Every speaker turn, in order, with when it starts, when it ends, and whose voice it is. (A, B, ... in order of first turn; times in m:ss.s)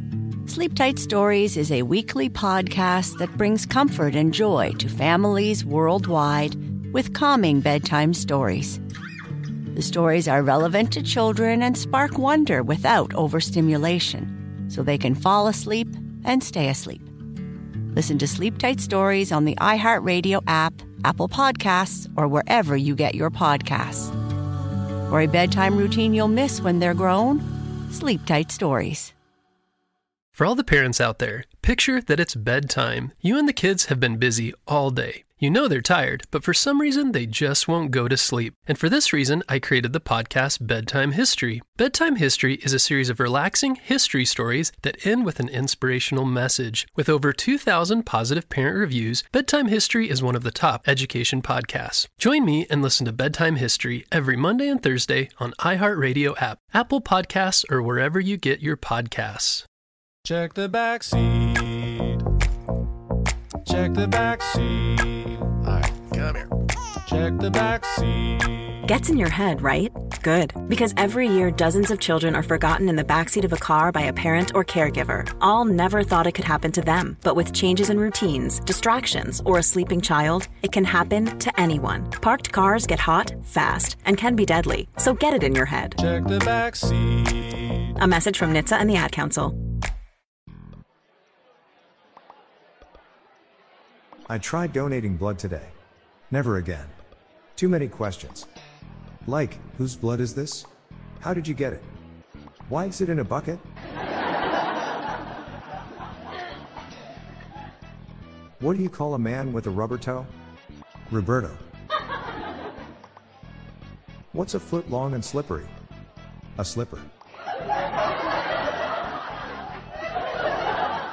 0:00.5-0:08.8 A
0:09.7-0:17.1 A
0:17.9-0:24.2 A
0:25.1-0:29.1 A
0:30.4-0:59.6 B
1:00.2-1:02.2 C
1:03.6-1:06.5 C
1:07.0-1:08.8 C
1:08.9-1:26.0 D
1:26.0-1:27.9 C
1:28.0-1:29.6 D
1:34.3-1:35.7 E
1:36.3-1:36.9 E
1:37.6-1:38.5 E
1:39.3-1:40.7 E
1:41.2-1:41.9 E
1:42.7-1:43.6 E
1:48.6-1:50.3 E
1:51.1-1:51.6 E
1:54.3-1:55.7 E
1:56.6-1:57.1 E